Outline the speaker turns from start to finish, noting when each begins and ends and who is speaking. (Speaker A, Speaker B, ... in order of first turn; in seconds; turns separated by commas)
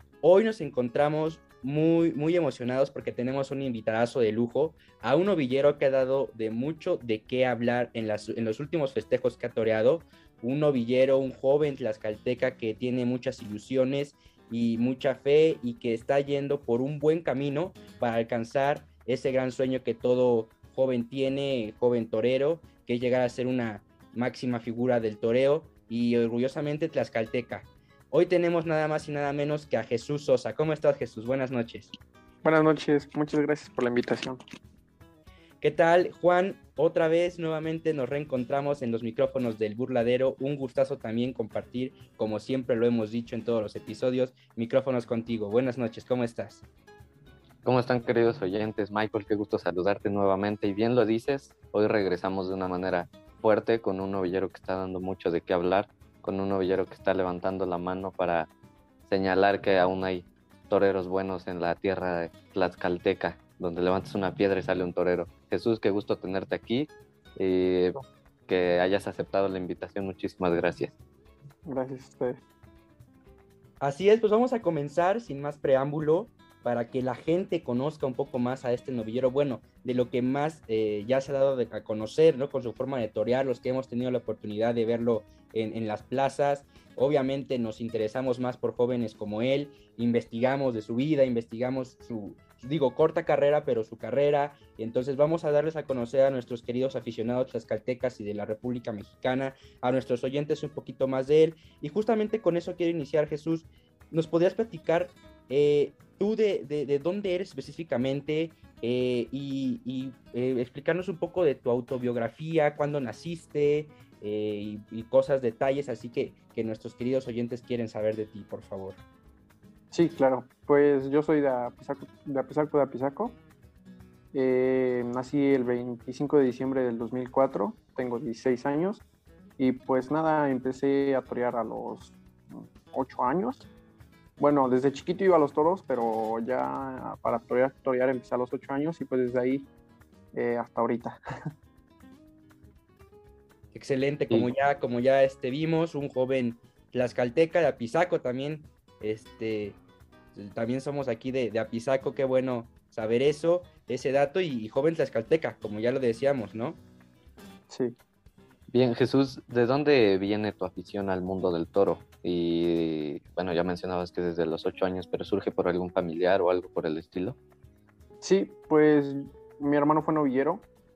Speaker A: 0.2-31.9, Speaker B: 32.4-34.4, Speaker A: 35.6-46.6, Speaker C: 47.6-58.5, Speaker C: 59.1-71.0, Speaker B: 71.7-72.4, Speaker A: 73.8-119.0, Speaker B: 119.9-123.4, Speaker B: 124.3-129.0, Speaker B: 129.6-133.6, Speaker B: 134.4-139.7, Speaker B: 140.3-141.2, Speaker A: 143.7-149.8, Speaker A: 150.3-156.8, Speaker B: 157.7-158.0, Speaker C: 158.7-167.4, Speaker B: 168.2-170.7